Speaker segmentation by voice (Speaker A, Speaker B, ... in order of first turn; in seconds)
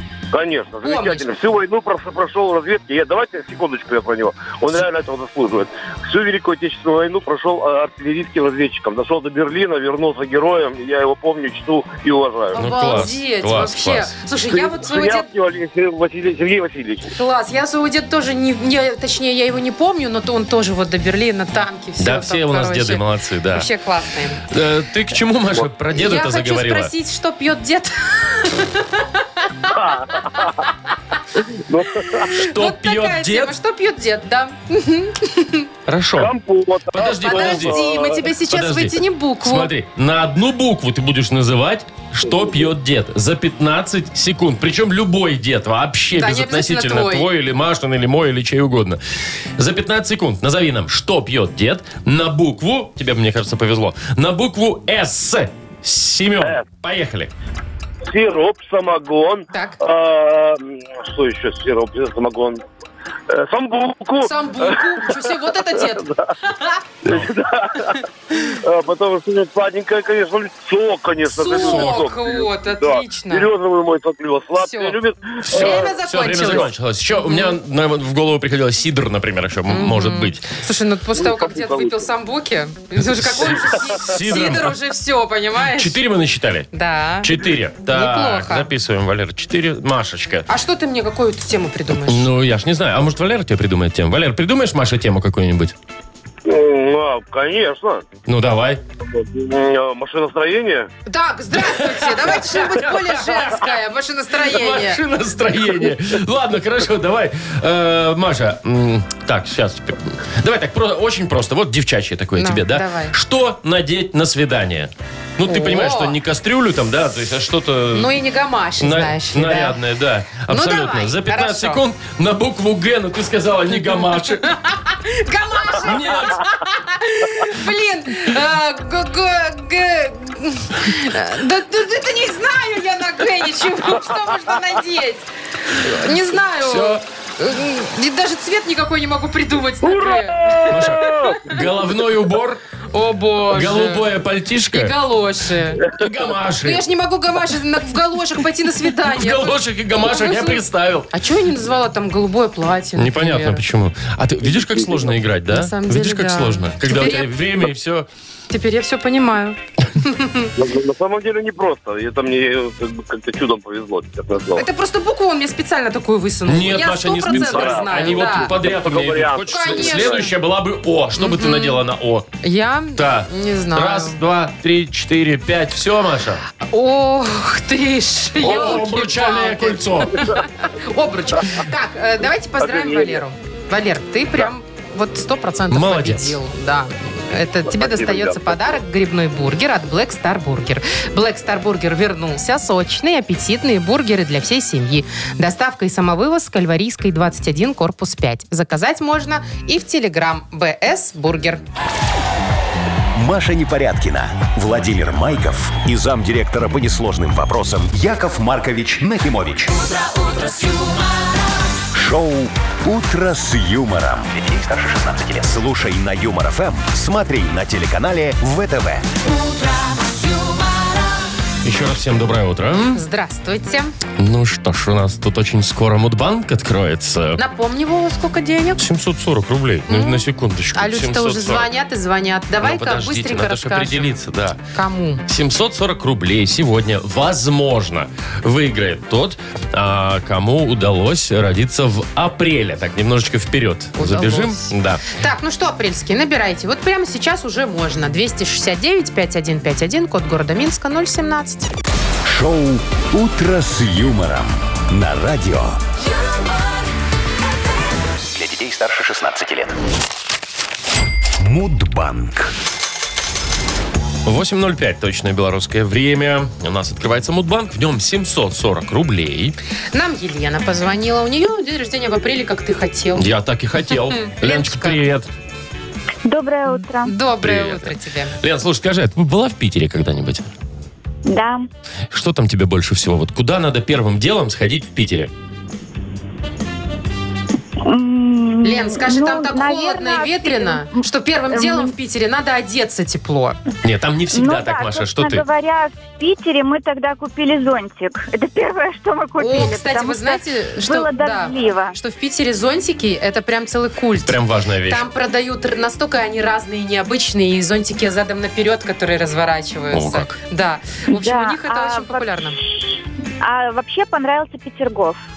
Speaker A: 0.3-12.6, 14.5-17.1, 29.7-30.6, 31.5-32.3, 36.2-38.2, 58.1-62.6, 63.3-65.2, 65.8-66.2, 67.0-75.9, 81.2-82.0, 96.5-98.1, 99.0-100.9, 139.8-141.5, 160.6-164.7, 167.3-170.2, 182.6-183.2, 187.7-188.7
Speaker B: 0.8-1.3, 12.5-15.3, 17.1-24.4, 25.9-29.8, 30.3-31.2, 32.2-35.7, 37.2-39.7, 46.2-47.3, 59.5-59.8, 64.2-66.8, 71.3-73.5, 74.6-75.0, 75.5-77.6, 79.7-86.0, 86.7-88.7, 90.5-92.3, 101.1-105.0, 112.4-113.2, 115.5-116.2, 117.9-119.8, 120.5-121.8, 124.4-141.6, 142.9-144.1, 144.7-145.9, 146.6-153.6, 155.5-157.3, 158.5-160.5, 164.6-168.6, 169.5-170.3, 171.2-171.8, 172.4-174.2, 176.6-201.6, 222.9-223.9, 227.4-228.9, 229.9-234.2, 234.7-235.2, 244.0-251.7, 269.9-273.3, 273.9-275.0, 277.0-278.3, 288.6-293.6, 299.4-312.6
Speaker C: 12.6-14.1, 22.0-23.7, 24.5-26.9, 32.3-33.5, 35.9-36.3, 36.9-37.8, 38.5-49.0, 49.6-57.3, 67.1-67.3, 71.5-72.1, 75.5-80.4, 83.1-84.7, 85.7-86.7, 87.2-90.5, 92.0-95.8, 98.3-98.8, 101.5-103.8, 104.4-118.1, 118.8-124.5, 125.8-126.5, 136.6-137.0, 140.7-142.6, 143.5-144.9, 145.8-146.8, 149.0-151.1, 153.0-158.1, 166.5-172.3, 172.9-176.4, 178.4-180.3, 185.7-186.4, 221.6-223.0, 224.2-227.4, 228.8-231.7, 232.6-234.6, 235.3-245.1, 264.2-269.6, 273.2-275.3, 277.4-280.5, 282.1-285.3, 293.8-295.4, 304.2-305.0, 309.9-310.4
Speaker D: 203.1-209.7, 211.9-219.1, 252.2-255.8, 258.3-259.8, 261.4-262.5
Speaker E: 209.7-211.6, 219.2-221.2, 276.3-277.1, 281.3-281.6, 287.9-290.6, 294.4-300.3, 300.9-301.8, 311.3-312.1, 313.5-315.1